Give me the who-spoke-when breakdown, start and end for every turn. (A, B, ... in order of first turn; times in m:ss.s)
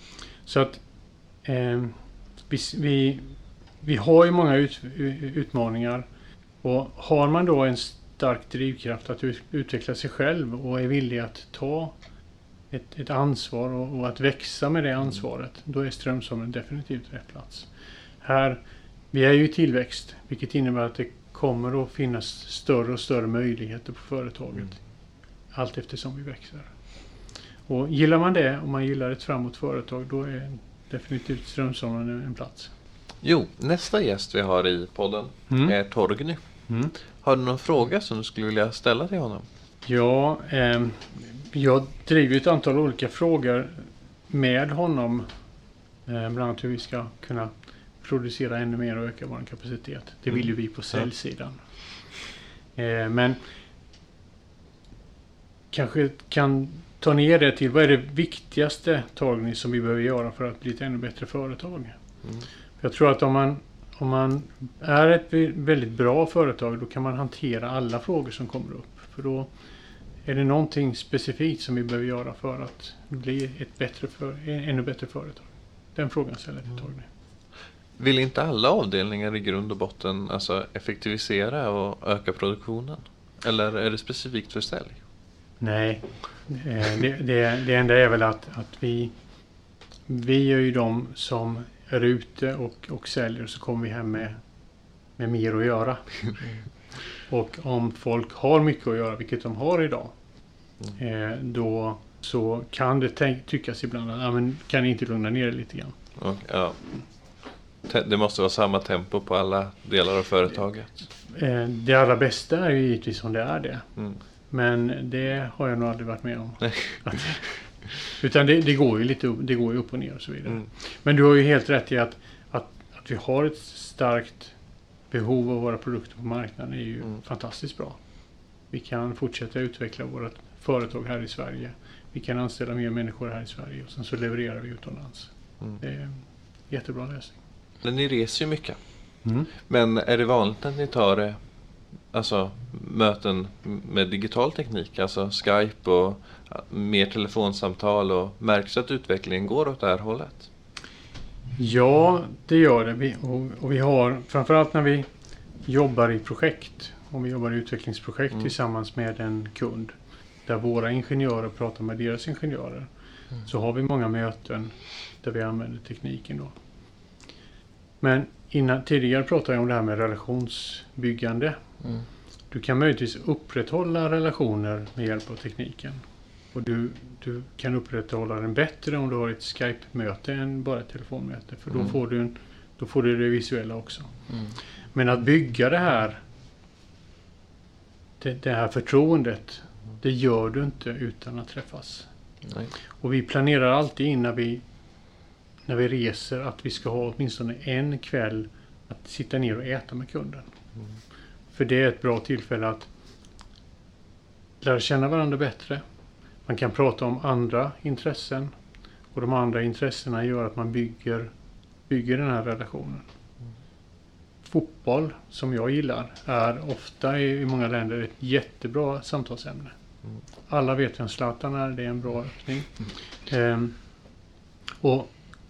0:00.4-0:00.8 A
0:01.4-0:01.9 A
0:02.5-0:06.0 A
0:06.6-0:12.0 A
0:12.7-0:17.7 A
0:18.2-0:24.8 A
0:25.5-0:26.7 A
0:27.7-0:32.7 A
0:33.2-0:36.4 B
0:35.5-0:35.7 A
0:36.7-0:36.9 A
0:37.2-0:39.4 B
0:39.8-0:45.3 A
0:46.0-0:51.6 A
0:52.8-0:53.4 A
0:55.7-1:02.0 A
1:02.8-1:09.5 A
1:10.2-1:17.0 A
1:18.0-1:25.0 B
1:25.6-1:29.1 A
1:30.1-1:34.4 A
1:35.2-1:36.0 A
1:37.3-1:40.1 A
1:41.0-1:46.0 A
1:46.2-1:46.8 B
1:47.8-1:51.0 B
1:51.3-1:53.9 A
1:54.5-2:04.5 A
2:05.1-2:08.0 A
2:08.7-2:17.4 A
2:17.8-2:18.8 B
2:19.2-2:19.5 A
2:19.5-2:21.4 B
2:22.1-2:30.5 B
2:31.6-2:35.1 A
2:35.6-2:42.9 A
2:43.4-2:46.5 A
2:48.0-2:51.6 A
2:52.5-2:56.0 A
2:56.5-3:04.1 A
3:04.9-3:06.2 A
3:08.2-3:12.1 A
3:13.0-3:14.6 A
3:15.6-3:20.5 A
3:21.5-3:22.9 A
3:24.6-3:25.8 A
3:26.4-3:28.5 A
3:29.1-3:31.3 A
3:31.9-3:33.0 A
3:34.4-3:39.7 A
3:40.5-3:43.8 A
3:44.8-3:45.1 A